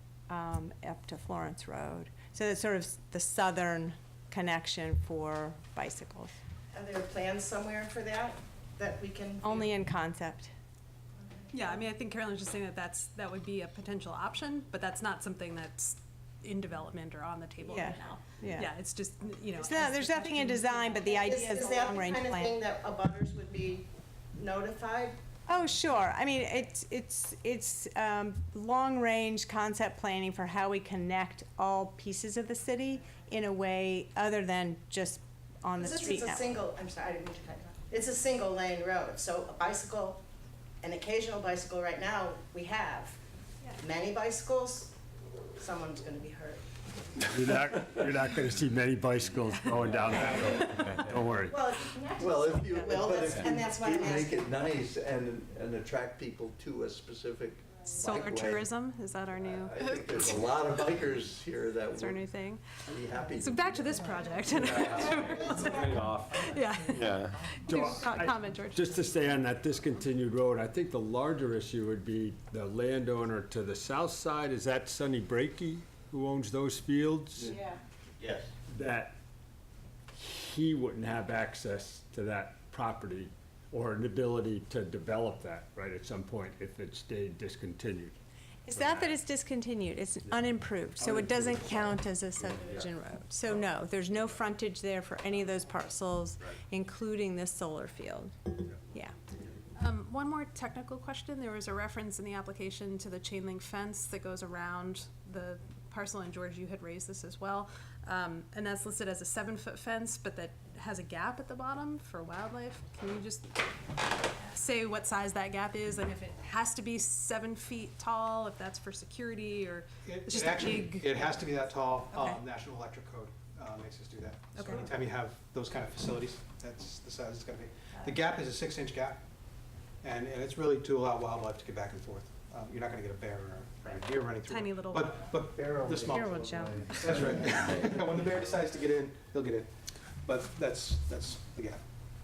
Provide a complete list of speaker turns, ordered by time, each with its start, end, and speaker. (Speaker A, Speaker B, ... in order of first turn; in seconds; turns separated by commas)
Speaker A: 0.3-6.3, Speaker B: 6.7-9.7, Speaker A: 9.4-10.5, Speaker C: 11.5-21.0, Speaker A: 17.6-18.7, Speaker A: 19.6-22.6, Speaker B: 20.9-25.2, Speaker A: 25.5-36.6, Speaker B: 35.8-40.2, Speaker B: 40.8-43.2, Speaker B: 43.8-45.0, Speaker B: 45.6-46.6, Speaker D: 47.2-51.7, Speaker B: 51.5-54.4, Speaker E: 52.1-58.7, Speaker C: 57.9-61.0, Speaker E: 59.4-65.3, Speaker C: 61.8-69.2, Speaker D: 67.0-77.5, Speaker D: 78.7-79.2, Speaker D: 80.1-88.2, Speaker A: 88.7-99.2, Speaker D: 88.7-89.1, Speaker C: 99.8-122.0, Speaker F: 120.0-129.2, Speaker A: 122.1-122.4, Speaker C: 124.5-124.9, Speaker F: 130.0-136.2, Speaker C: 134.4-135.3, Speaker E: 135.3-138.1, Speaker A: 136.1-137.4, Speaker F: 136.9-139.7, Speaker F: 140.2-141.8